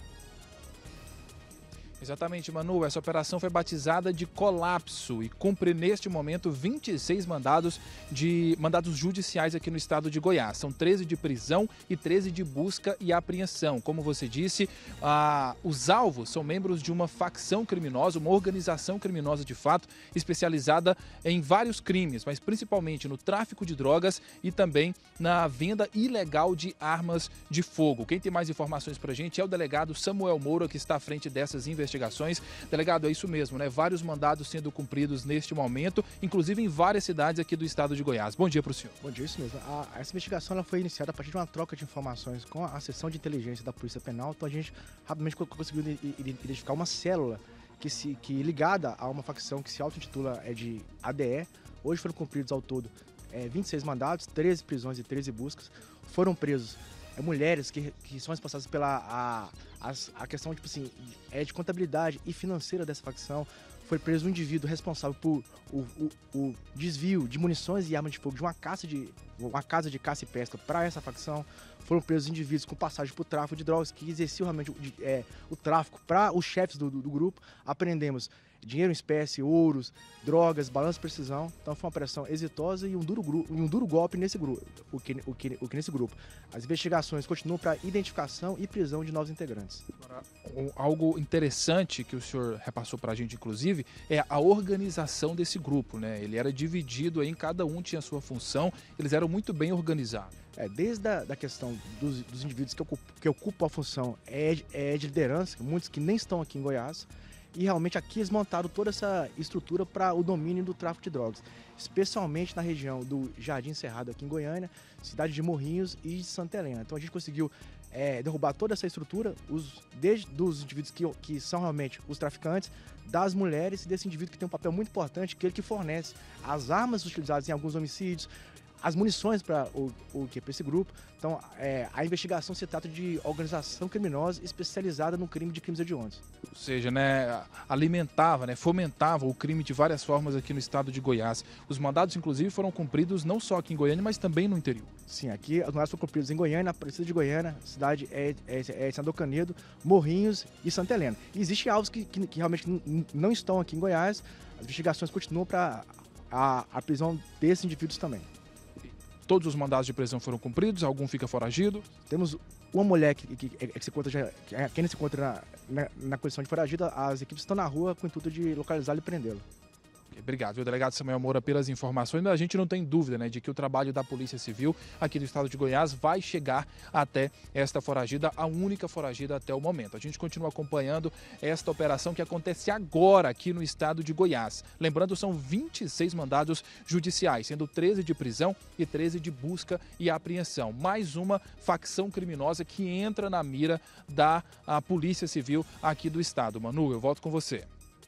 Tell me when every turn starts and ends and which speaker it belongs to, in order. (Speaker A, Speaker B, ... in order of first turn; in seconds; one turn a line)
Speaker A: 2.0-38.9
Speaker B: 39.0-89.8
Speaker A: 90.0-100.3
Speaker B: 100.5-128.3
Speaker B: 128.8-136.2
Speaker A: 136.5-144.9
Speaker B: 145.1-158.3
Speaker A: 159.2-161.9
Speaker B: 162.1-169.4
Speaker A: 170.1-197.7